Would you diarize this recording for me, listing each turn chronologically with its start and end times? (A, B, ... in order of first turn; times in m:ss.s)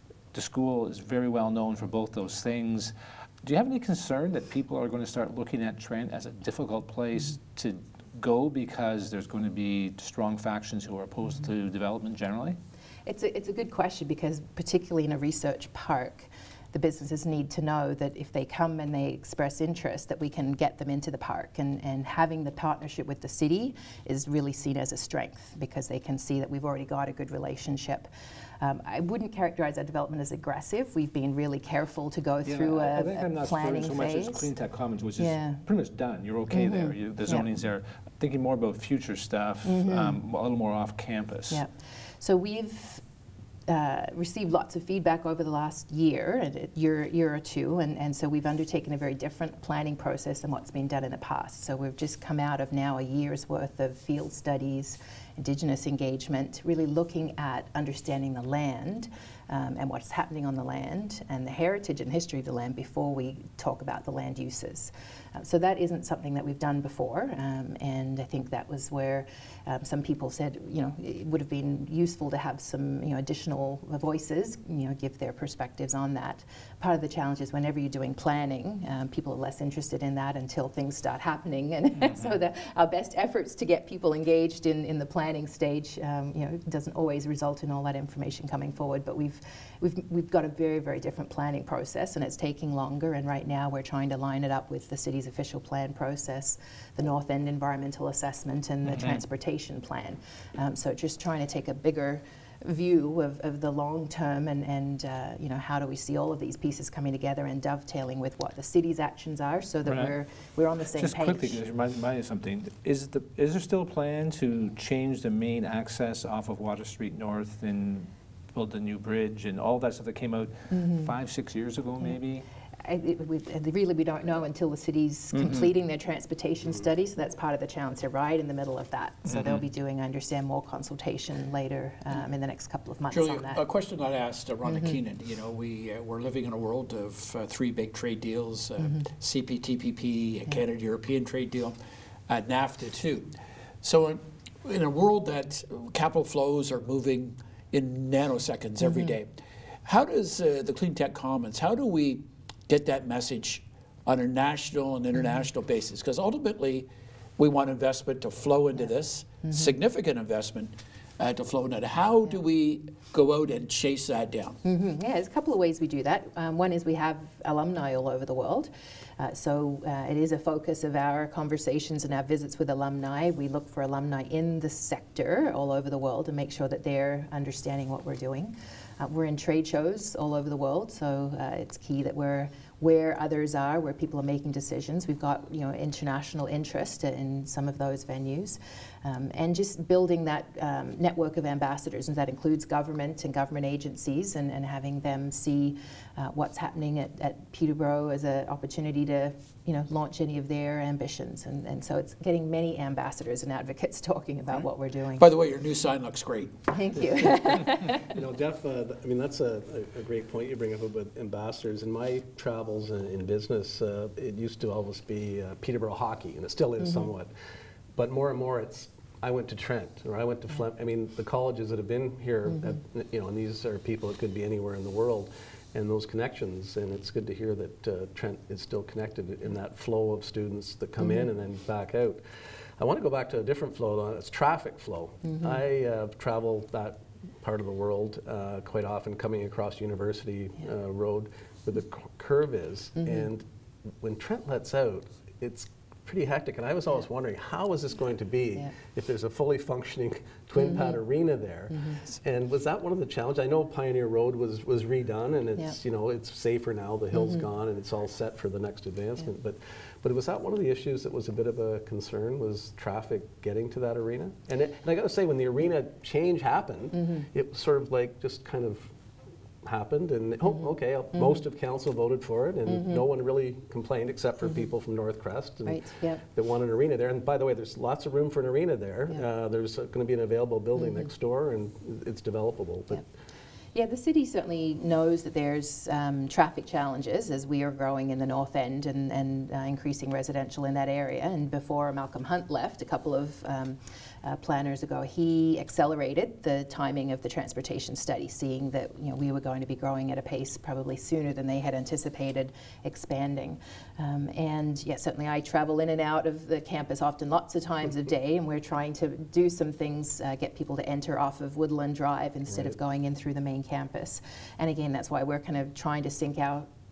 0:00.3-0:02.9 A
0:03.4-0:12.6 A
0:13.1-0:28.1 B
0:28.6-0:34.5 B
0:32.5-0:41.6 A
0:35.2-0:35.6 B
0:36.5-0:37.5 B
0:39.6-0:40.2 B
0:41.5-0:43.0 B
0:43.7-1:51.6 B
1:38.9-1:39.2 A
1:49.9-1:50.1 A
1:51.0-2:02.4 A
2:00.7-2:01.1 B
2:02.8-2:13.6 B
2:05.4-2:05.7 A
2:09.3-2:09.6 A
2:13.1-2:21.8 C
2:14.7-2:15.0 B
2:22.3-2:44.6 C
2:44.6-3:25.3 B
3:25.2-3:26.5 C
3:26.7-3:28.1 B
3:28.1-3:37.3 D
3:36.8-3:37.1 B
3:38.0-3:52.2 D
3:52.8-4:03.4 D
3:55.3-3:55.6 B
4:03.0-4:03.3 B
4:04.0-4:28.9 D
4:10.6-4:11.0 B
4:17.1-4:17.4 B
4:27.0-4:27.3 B
4:29.6-4:43.0 D
4:35.7-4:36.2 B
4:43.7-5:16.7 B